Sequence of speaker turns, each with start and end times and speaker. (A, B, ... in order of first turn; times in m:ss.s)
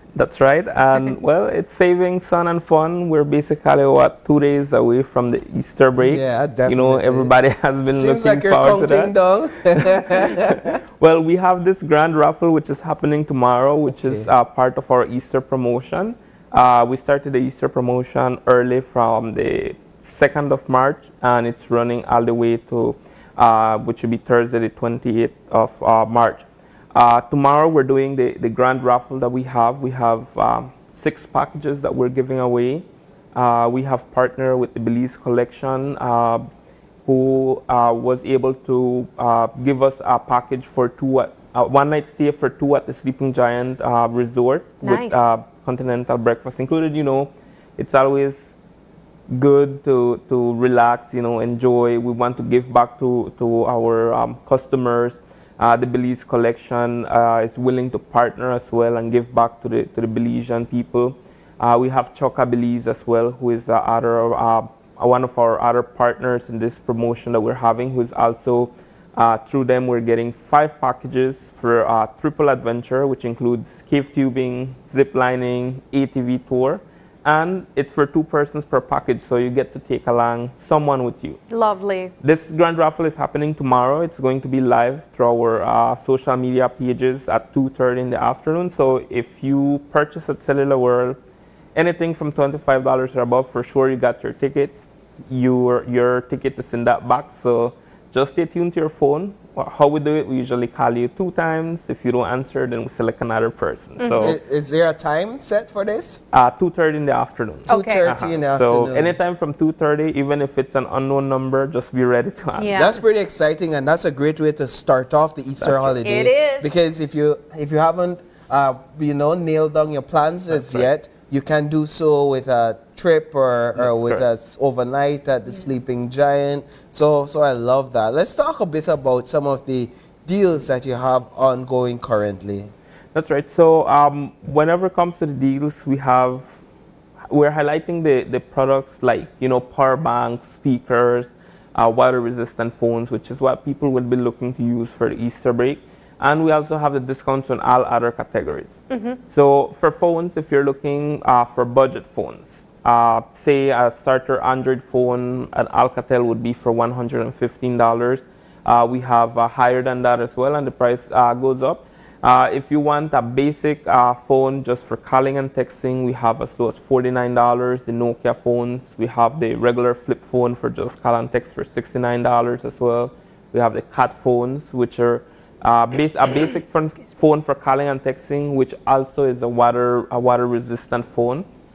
0:00.1-0:36.4 A
0:06.0-0:07.3 B
0:07.9-0:10.8 B
0:13.9-0:14.3 B
0:37.0-0:48.5 A
0:44.8-0:45.3 C
0:49.3-1:21.4 A
1:21.5-1:22.1 C
1:22.2-1:31.2 A
1:31.7-1:44.4 A
1:44.0-1:44.4 C
1:44.2-1:46.2 B
1:46.3-1:52.8 A
1:47.7-1:48.1 C
1:47.7-1:49.2 B
1:52.6-1:53.0 C
1:52.7-2:12.7 B
1:55.6-1:56.0 A
1:56.0-1:56.7 C
2:00.5-2:00.9 A
2:03.8-2:04.2 A
2:13.1-2:16.6 A
2:17.3-3:01.4 A
2:28.9-2:29.2 C